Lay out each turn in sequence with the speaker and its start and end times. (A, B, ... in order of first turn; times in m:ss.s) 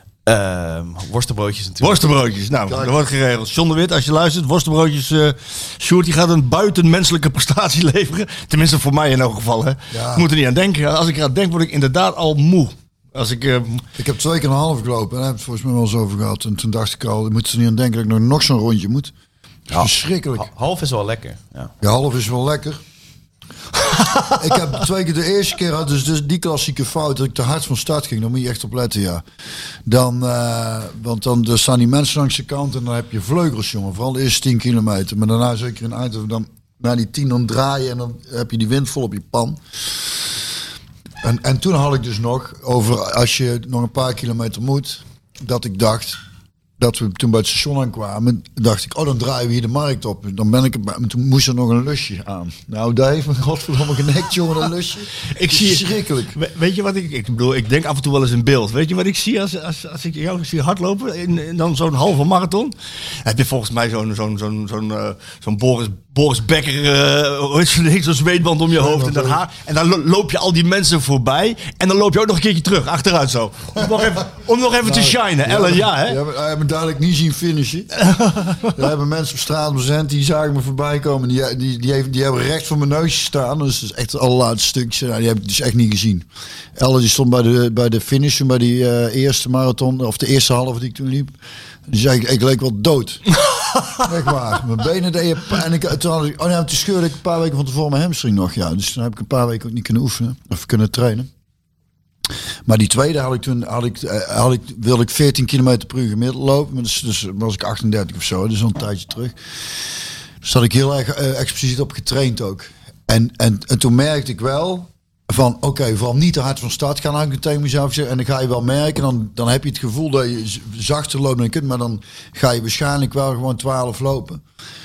0:00.3-0:02.1 A
0:01.8-0:13.8 B
0:02.7-0:02.9 C
0:09.9-0:10.3 C
0:14.0-0:19.1 C
0:19.7-0:20.5 C
0:19.7-0:21.7 A
0:21.8-0:22.8 C
0:23.8-0:24.4 B
0:24.4-0:29.2 C
0:29.9-0:39.6 C
0:41.2-0:46.2 C
0:46.8-0:56.4 C
0:55.3-1:16.2 B
1:08.7-1:09.4 C
1:14.8-1:18.0 C
1:18.0-1:18.7 B
1:18.6-1:31.4 C
1:31.9-1:33.3 C
1:34.0-1:41.3 C
1:42.7-1:49.4 C
1:50.4-2:04.4 C